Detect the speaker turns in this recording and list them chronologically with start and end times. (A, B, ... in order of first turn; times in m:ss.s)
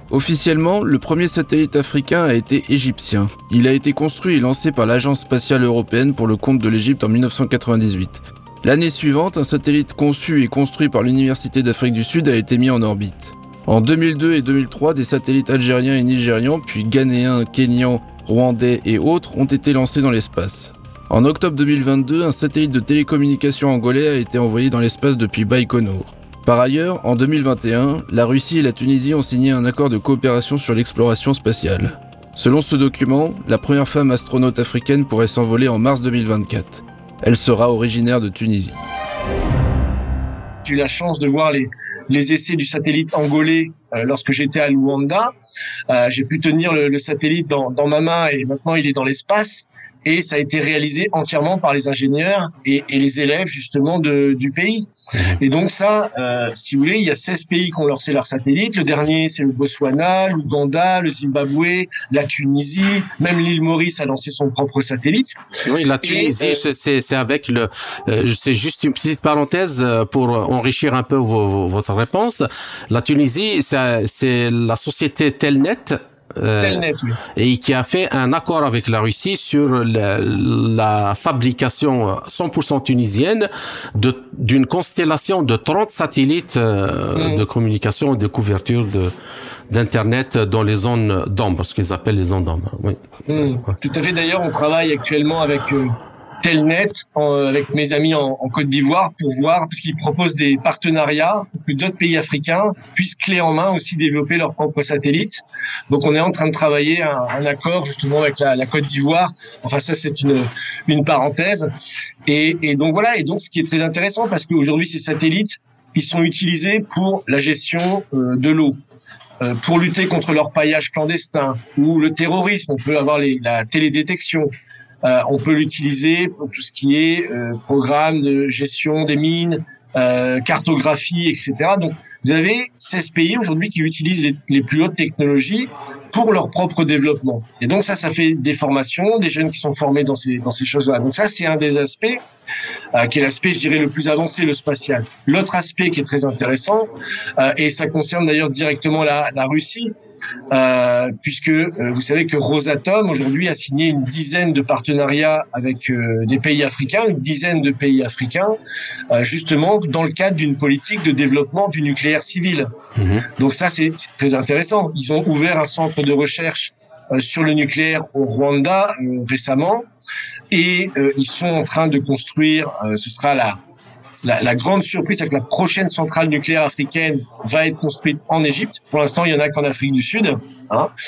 0:00.1-0:38.8 A
0:40.6-0:45.3 B
0:45.9-1:05.4 B
1:05.6-1:16.8 C
1:06.0-1:06.7 B
1:16.6-1:17.2 B
1:17.4-1:29.1 C
1:27.2-1:27.5 B
1:29.7-1:33.0 C
1:33.3-1:51.7 B
1:52.3-1:58.8 B
1:59.4-2:22.2 B
2:22.9-2:29.9 B
2:30.5-2:38.6 B
2:39.1-2:42.7 B
2:43.0-2:43.3 C
2:43.4-2:49.8 B
2:50.5-2:53.6 B
2:54.2-3:00.9 B